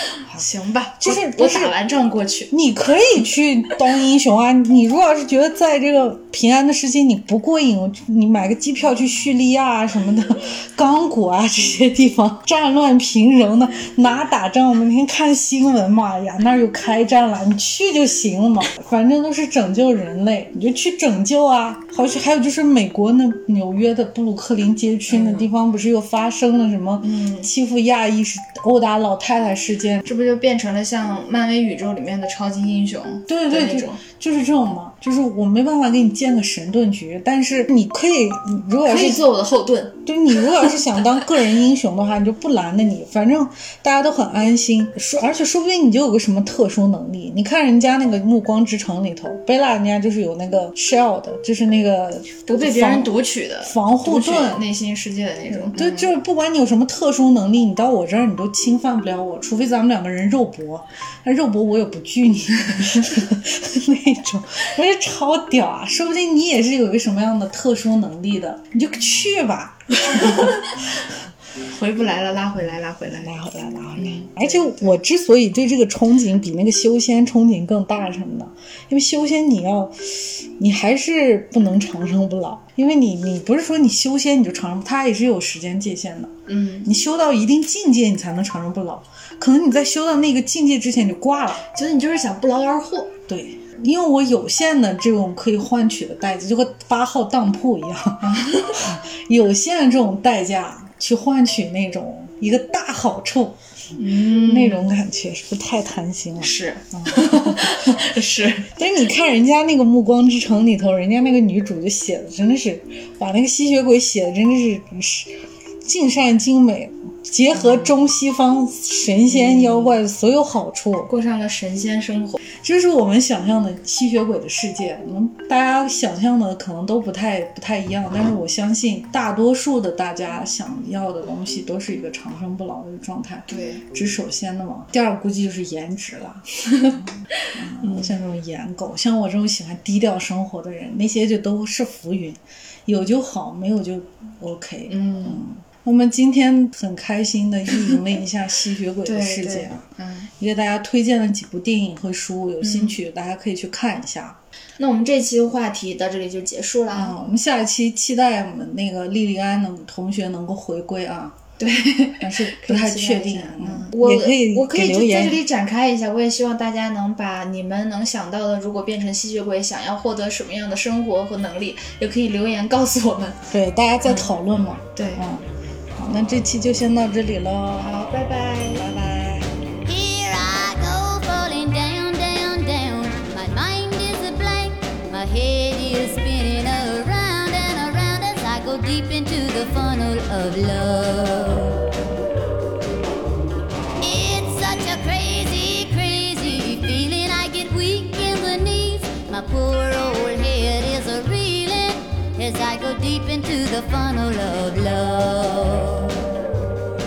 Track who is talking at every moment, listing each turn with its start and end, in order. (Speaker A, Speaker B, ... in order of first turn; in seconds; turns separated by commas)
Speaker A: 0.3-2.5, Speaker B: 1.0-1.8, Speaker B: 2.5-30.1, Speaker A: 25.1-25.5, Speaker A: 27.0-27.5, Speaker A: 30.1-34.0, Speaker B: 33.3-39.3, Speaker A: 38.9-40.8, Speaker B: 40.0-54.6, Speaker A: 52.5-56.1, Speaker B: 55.5-70.7, Speaker A: 70.1-70.7, Speaker A: 71.7-73.3, Speaker B: 73.2-91.7, Speaker A: 74.0-74.9, Speaker A: 86.5-86.9, Speaker A: 91.7-93.1, Speaker B: 93.3-103.6, Speaker A: 98.2-98.8, Speaker A: 104.0-104.9, Speaker B: 104.1-108.0, Speaker A: 106.4-108.8, Speaker B: 108.7-121.1, Speaker A: 117.5-117.9, Speaker A: 119.3-120.0, Speaker A: 121.1-122.4, Speaker B: 122.5-149.9, Speaker A: 133.5-133.8, Speaker A: 137.8-138.1, Speaker A: 144.9-145.5, Speaker A: 149.1-150.3, Speaker B: 150.4-154.4, Speaker A: 152.6-153.0, Speaker A: 154.8-157.2, Speaker B: 156.9-161.4, Speaker A: 161.6-173.5, Speaker B: 162.2-165.4, Speaker B: 173.5-178.0, Speaker A: 174.0-174.3, Speaker A: 174.9-175.2, Speaker A: 177.8-178.9, Speaker B: 178.8-179.5, Speaker C: 179.8-191.8, Speaker C: 194.0-206.2